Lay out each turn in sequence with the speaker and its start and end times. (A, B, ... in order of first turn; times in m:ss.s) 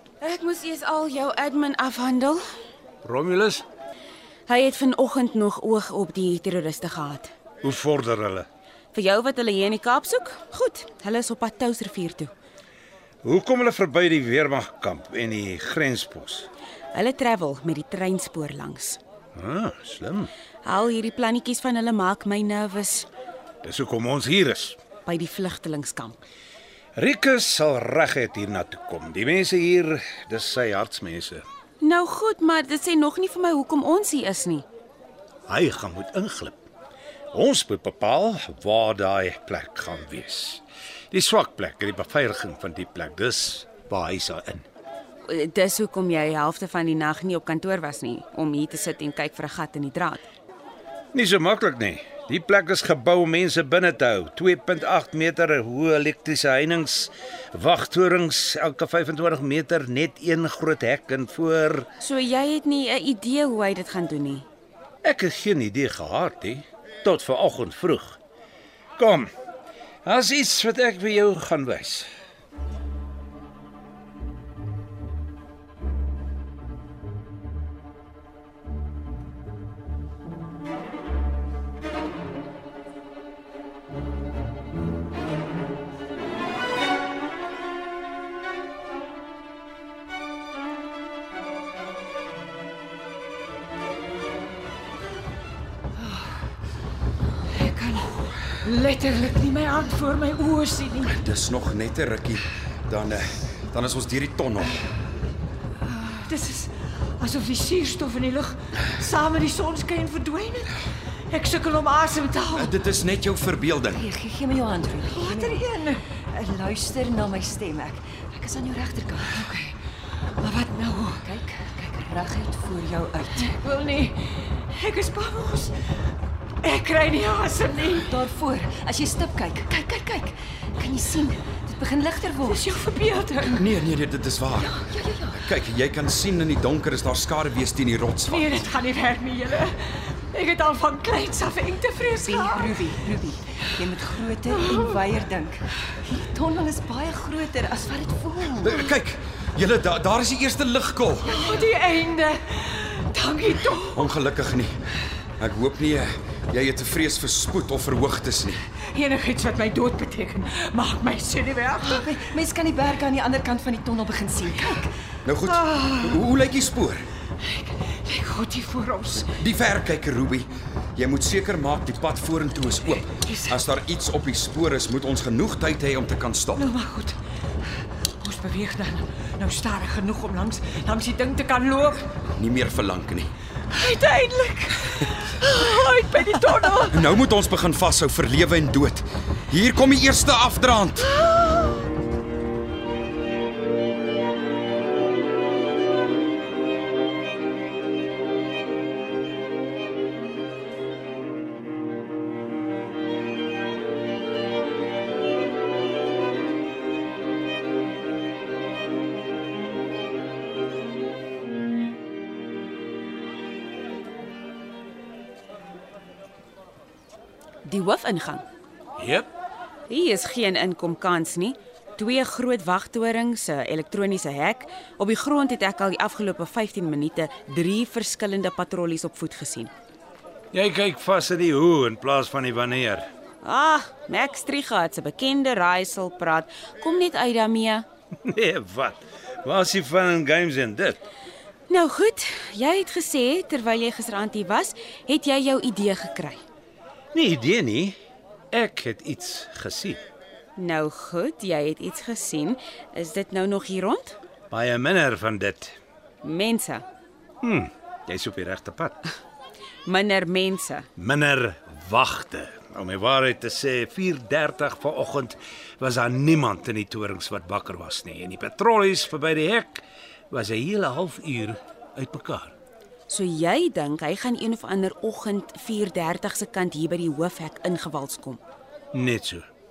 0:00.2-0:02.4 A
0:03.0-0:03.6 B
0:04.5-0:07.3 A
0:07.6-0:08.5 B
0:08.9-0:12.3 A
0:13.2-0:16.5 B
0:16.9-0:19.0 A
0:19.3-0:20.3 B
0:20.6-0:23.1 A
0:23.6-0:24.8 B
0:25.0-0:26.2 A
0:27.0-0:31.4 B
0:31.8-0:34.6 A
0:35.5-0:36.6 B
0:37.3-0:44.6 B
0:45.2-0:50.2 A
0:51.1-1:01.9 B
1:02.0-1:04.4 A
1:05.0-1:08.2 B
1:09.0-1:09.3 B
1:10.0-1:12.1 B
1:37.6-1:41.1 C
1:41.1-1:44.8 D
1:46.2-1:50.8 C
1:51.3-1:52.7 C
1:52.5-1:54.0 D
1:54.0-1:55.6 E
1:55.1-1:56.0 C
1:56.2-1:59.5 E
1:59.5-1:59.7 C
2:00.4-2:01.2 C
2:01.2-2:03.6 E
2:03.6-2:05.8 C
2:06.6-2:08.1 C
2:08.0-2:12.6 E
2:09.7-2:10.1 C
2:12.5-2:13.6 C
2:13.5-2:14.7 D
2:14.6-2:15.4 E
2:15.3-2:18.6 D
2:18.3-2:22.8 C
2:22.1-2:28.8 E
2:28.6-2:31.4 D
2:31.2-2:34.0 C
2:33.8-2:34.8 D
2:35.4-2:38.6 D
2:38.9-2:42.1 C
2:41.8-2:44.9 E
2:45.2-2:47.0 D
2:45.7-2:46.0 C
2:47.4-2:49.3 C
2:49.4-2:56.7 D
2:53.2-2:53.6 C
2:56.6-2:57.2 C
2:58.2-3:02.1 C
3:02.4-3:03.3 D
3:03.7-3:07.0 C
3:06.9-3:11.1 D
3:11.3-3:11.9 C
3:37.6-3:38.4 A
3:39.0-3:39.3 B
3:39.9-3:49.7 A
3:50.5-3:53.1 B
3:53.4-3:57.8 A
3:58.2-4:01.0 B
4:01.7-4:06.4 A
4:07.1-4:08.0 B
4:08.5-4:10.0 B
4:10.6-4:14.2 A
4:14.5-4:15.8 B
4:16.2-4:16.8 A
4:17.4-4:19.0 B
4:19.8-4:20.9 A
4:21.0-4:32.5 B
4:33.1-4:38.4 A
4:38.9-4:39.4 B